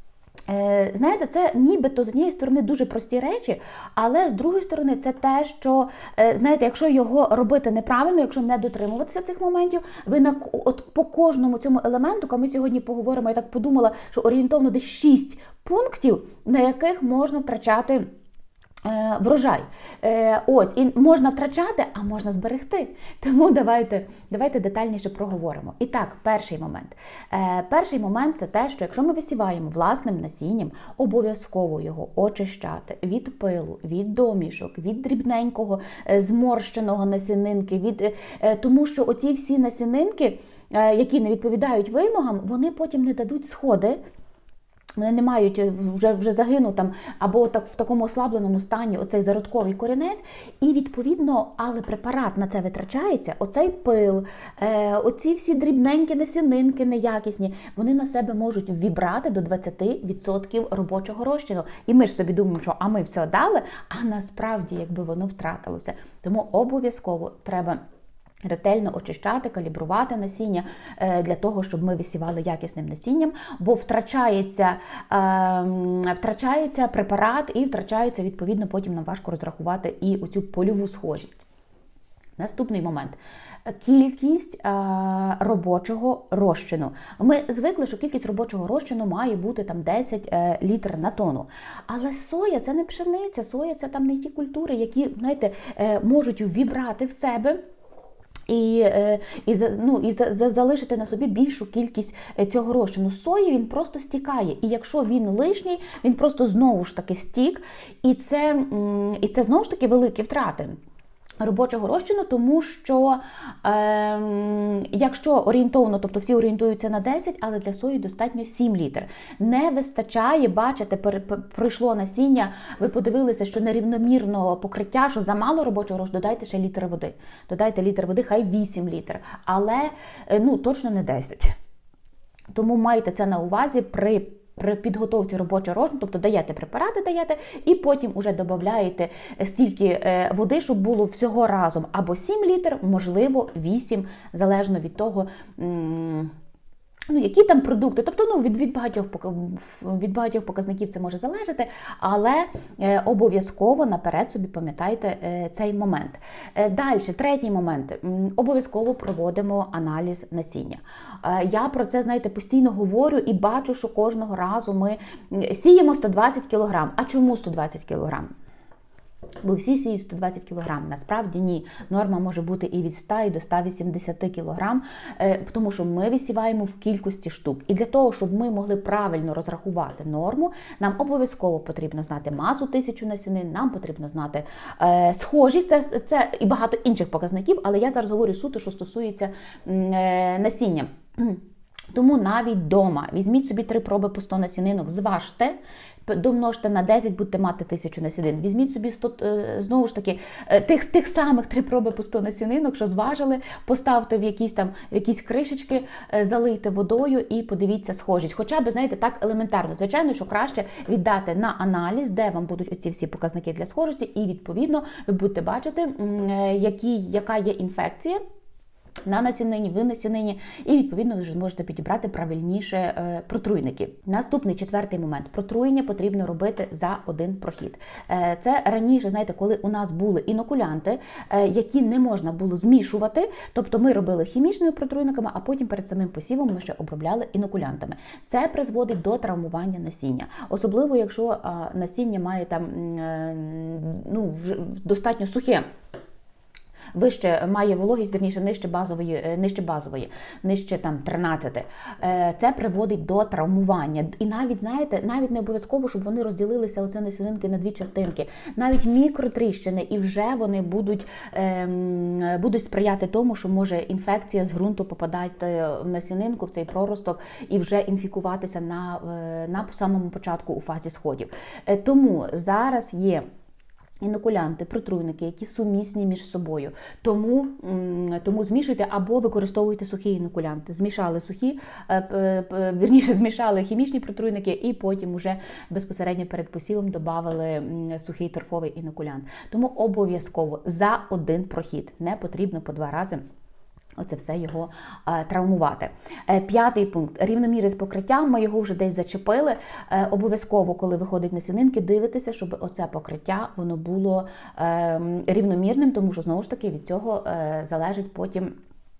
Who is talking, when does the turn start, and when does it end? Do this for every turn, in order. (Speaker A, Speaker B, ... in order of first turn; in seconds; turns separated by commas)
Speaker A: 0.5-18.0, Speaker A: 18.8-44.0, Speaker A: 45.0-67.8, Speaker A: 68.4-81.4, Speaker A: 82.4-97.6, Speaker A: 98.5-110.8, Speaker A: 111.4-131.5, Speaker A: 132.5-146.3, Speaker A: 147.1-168.3, Speaker A: 169.4-191.4, Speaker A: 191.9-195.5, Speaker A: 196.1-218.2, Speaker A: 219.1-245.6, Speaker A: 246.9-273.2, Speaker A: 274.0-293.2, Speaker A: 294.0-308.5